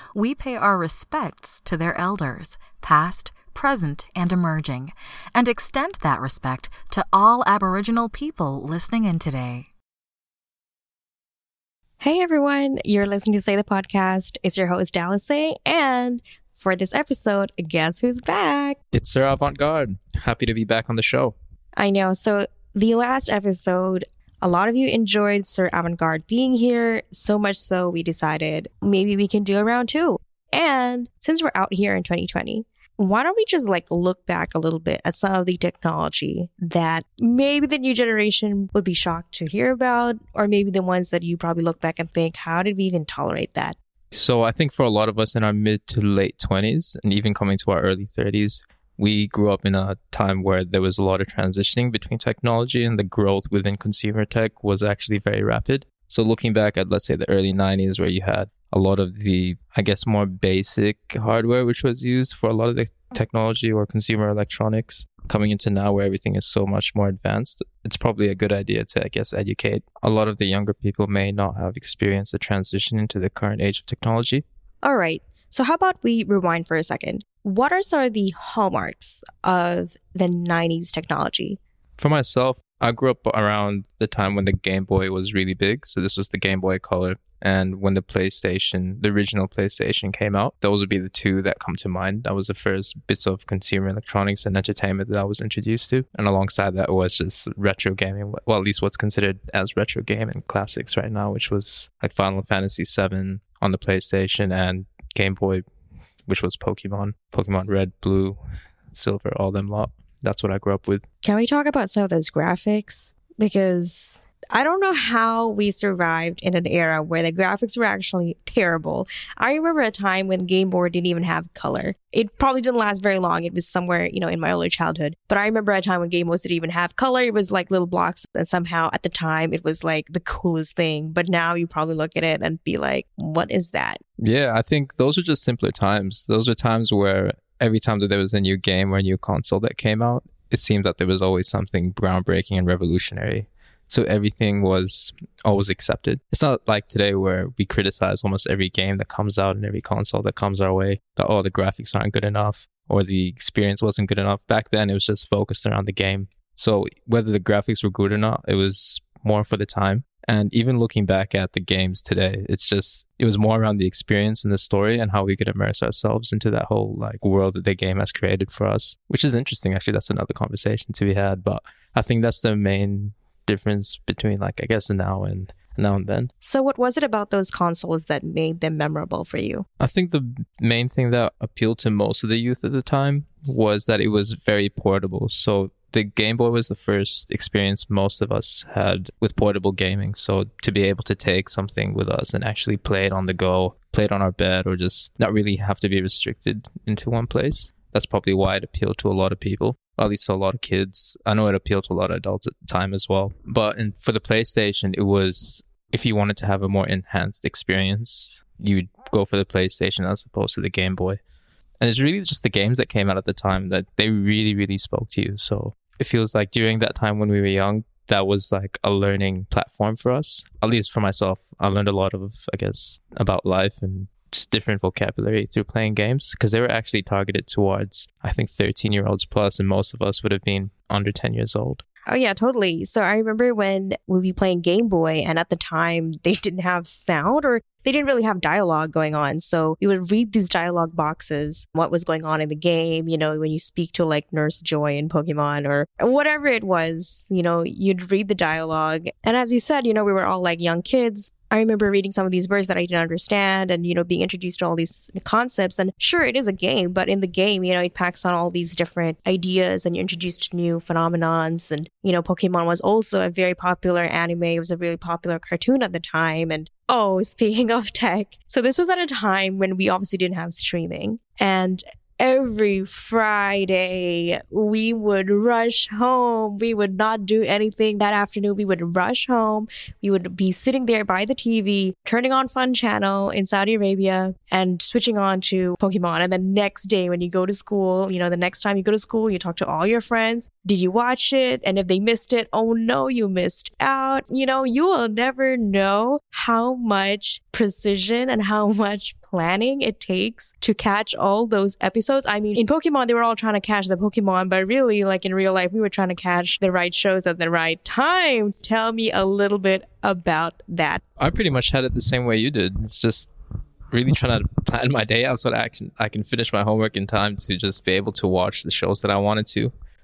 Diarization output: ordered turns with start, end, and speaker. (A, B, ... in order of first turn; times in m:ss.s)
0:00.1-0:09.7 A
0:12.0-0:18.8 B
0:18.9-0:21.3 C
0:21.8-0:43.8 B
0:44.1-1:14.4 C
1:14.8-1:21.6 B
1:22.0-1:45.6 C
1:46.3-1:48.4 C
1:48.9-1:51.0 C
1:51.2-2:14.0 B
2:14.2-2:56.3 C
2:56.4-2:59.6 B
2:59.8-3:31.2 C
3:31.8-3:51.8 C
3:52.1-5:11.0 B
5:11.2-5:13.3 C
5:13.9-5:19.7 C